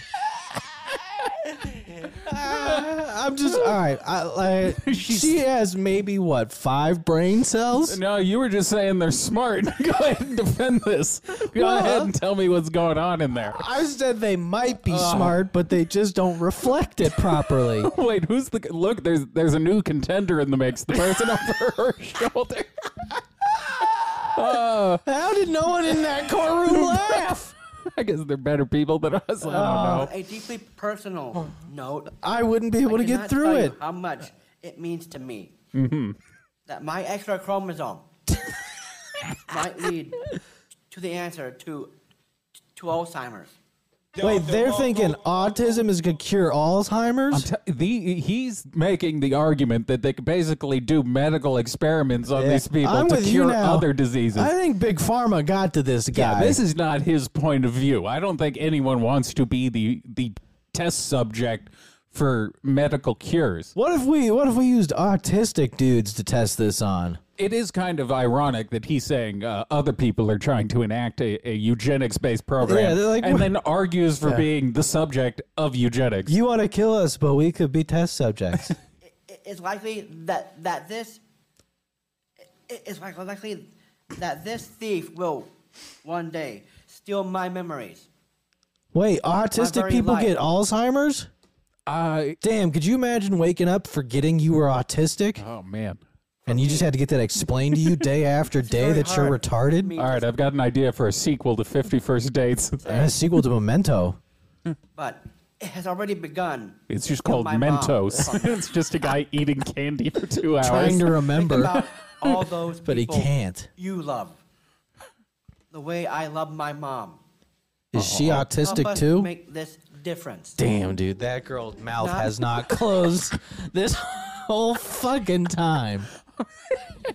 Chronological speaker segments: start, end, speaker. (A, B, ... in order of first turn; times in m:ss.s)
0:02.1-0:08.0 A
0:04.7-0:05.4 B
0:07.9-0:13.6 B
0:11.5-0:12.1 A
0:13.5-0:17.9 A
0:14.9-0:15.4 B
0:17.5-0:23.2 B
0:23.8-0:24.2 A
0:24.3-0:25.0 B
0:25.0-0:27.5 A
0:26.7-0:27.3 B
0:27.9-0:30.1 B
0:29.4-0:30.1 A
0:29.6-0:32.1 C
0:32.1-0:33.8 A
0:32.9-0:35.6 C
0:35.7-0:36.2 B
0:36.7-0:38.1 C
0:39.5-0:40.2 C
0:40.9-0:41.9 C
0:42.8-0:43.5 C
0:44.2-0:47.5 A
0:47.3-0:54.5 B
0:52.3-0:56.6 A
0:56.1-1:03.7 B
1:03.8-1:07.2 A
1:07.4-1:16.4 B
1:12.6-1:13.5 A
1:16.3-1:18.8 A
1:19.0-1:21.2 C
1:22.7-1:25.5 C
1:26.0-1:28.1 C
1:28.9-1:31.3 A
1:29.6-1:30.3 C
1:31.9-1:32.4 B
1:32.4-1:35.4 A
1:35.4-1:36.0 B
1:36.4-1:36.9 C
1:36.5-1:39.9 A
1:38.6-1:40.3 C
1:40.0-1:42.8 B
1:42.8-1:43.2 C
1:42.8-1:44.2 A
1:45.0-1:48.7 C
1:46.9-1:52.4 B
1:50.6-1:51.8 A
1:51.3-1:54.4 C
1:52.9-1:53.7 A
1:55.7-1:57.2 C
1:57.9-1:59.3 A
1:58.0-1:58.4 B
1:58.4-2:00.6 C
2:00.6-2:06.1 A
2:02.0-2:02.4 C